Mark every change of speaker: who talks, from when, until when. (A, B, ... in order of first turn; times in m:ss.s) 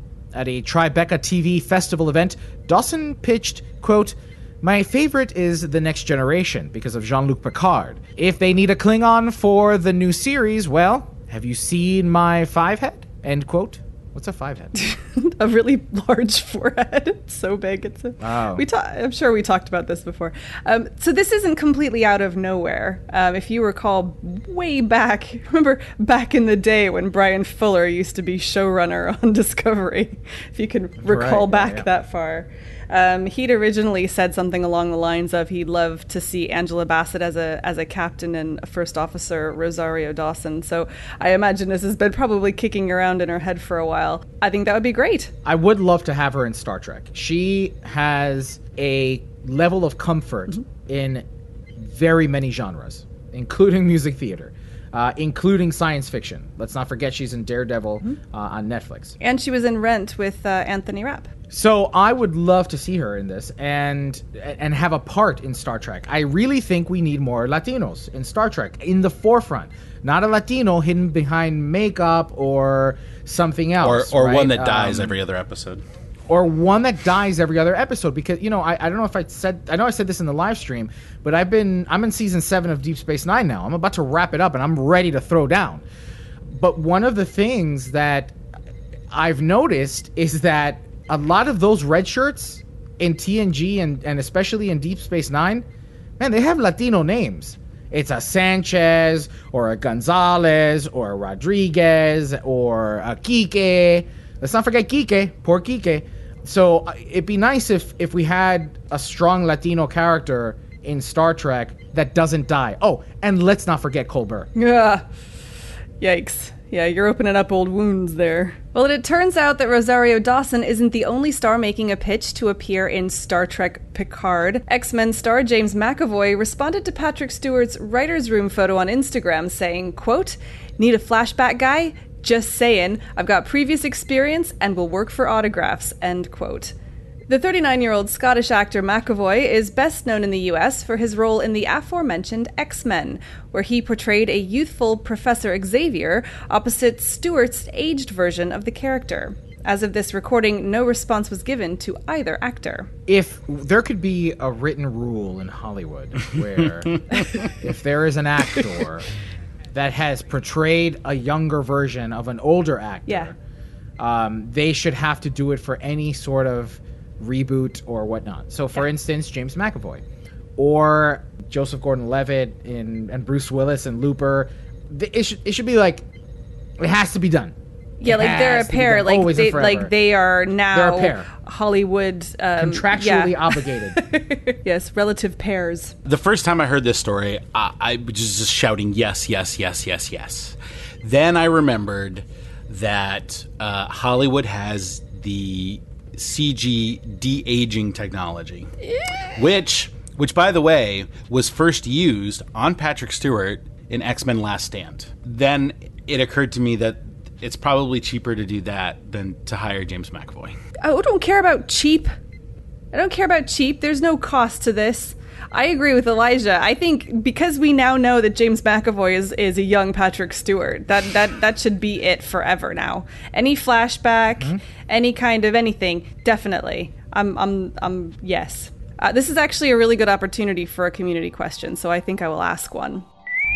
0:00.3-0:14.7 A
0:14.8-0:45.3 B
0:18.2-0:18.6 A
0:31.0-0:31.9 A
0:45.4-0:51.2 A
0:51.8-0:59.2 A
0:59.2-1:01.3 B
1:01.5-1:15.2 A
1:13.8-1:15.8 C
1:16.3-1:25.8 A
1:26.5-1:28.3 A
1:29.1-1:35.7 A
1:36.2-1:54.5 A
1:54.6-1:55.0 B
1:56.0-2:16.7 B
2:17.3-2:32.9 B
2:33.1-2:39.1 A
2:39.7-2:43.4 A
2:43.1-2:43.3 B
2:44.0-2:50.0 A
2:50.6-2:56.0 A
2:56.8-2:59.9 A
2:58.0-3:06.0 B
3:00.7-3:01.3 A
3:02.6-3:04.0 A
3:06.0-3:18.7 C
3:19.4-3:30.6 C
3:30.8-3:32.1 B
3:32.9-3:53.0 B